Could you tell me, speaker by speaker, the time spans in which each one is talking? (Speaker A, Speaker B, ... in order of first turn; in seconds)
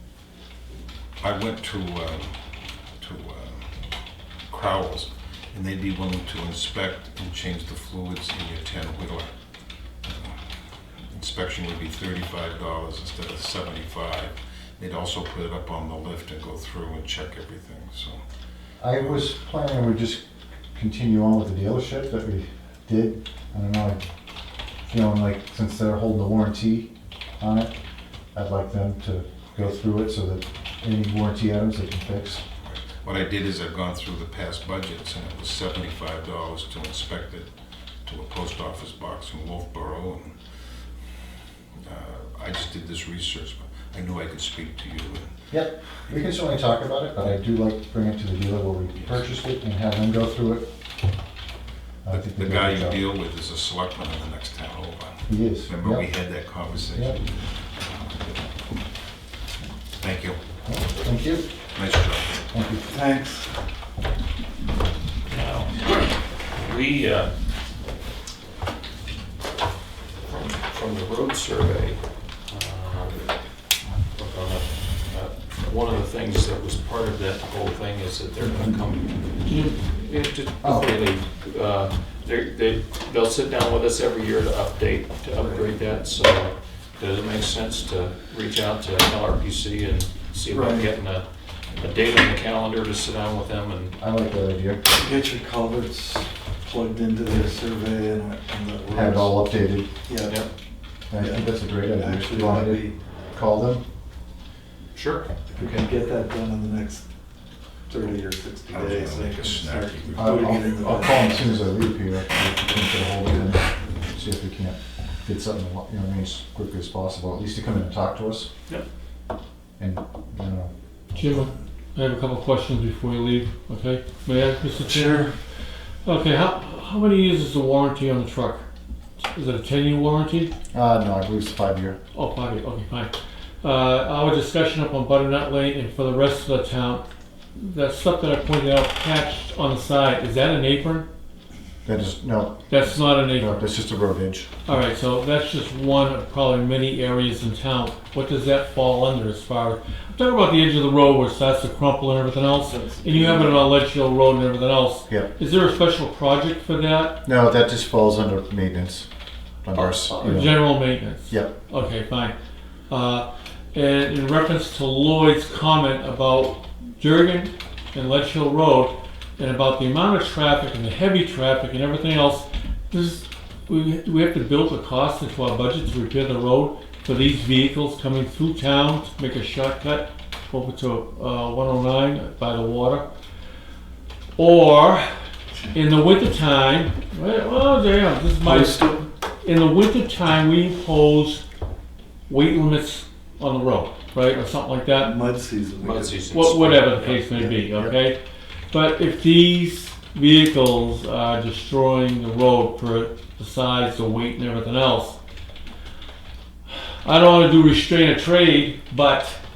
Speaker A: 1.2-2.4, 3.0-3.7, 4.5-9.3, 10.0-10.4, 11.1-18.2, 32.6-37.5, 38.0-40.4, 41.8-45.3, 52.1-58.5, 60.0-60.4, 61.7-62.4, 108.7-110.7
Speaker B: 18.8-20.2, 20.7-24.0, 24.9-27.7, 28.3-32.4, 45.5-50.7, 52.0-53.0, 55.3-56.0, 60.6-61.5, 62.5-62.9, 80.6-80.9, 94.0-94.8, 98.9-99.9, 101.1-103.8, 110.2-118.5, 119.8-121.4, 130.7-132.0, 141.8-144.5, 157.2-159.1, 159.6-161.6, 197.7-197.9
Speaker C: 62.9-63.5, 85.4-85.7, 90.5-90.9, 95.0-99.4, 100.0-100.4, 101.2-103.1, 105.5-107.1, 107.9-111.6, 124.7-125.3, 152.6-153.7, 188.4-189.1, 194.9-196.3, 197.4-197.6
Speaker D: 65.3-67.3, 70.2-73.3, 74.1-93.9, 100.2-100.5, 104.9-105.8, 195.8-197.5
Speaker E: 79.5-79.8, 121.2-125.3, 126.0-128.6, 129.2-130.5, 132.1-137.0, 137.6-141.1, 142.7-143.7, 144.7-157.2, 159.7-162.3, 162.9-183.1, 184.4-185.1, 185.7-188.8, 189.4-191.4, 192.3-195.2, 196.3-198.2, 198.7-205.2, 207.0-209.4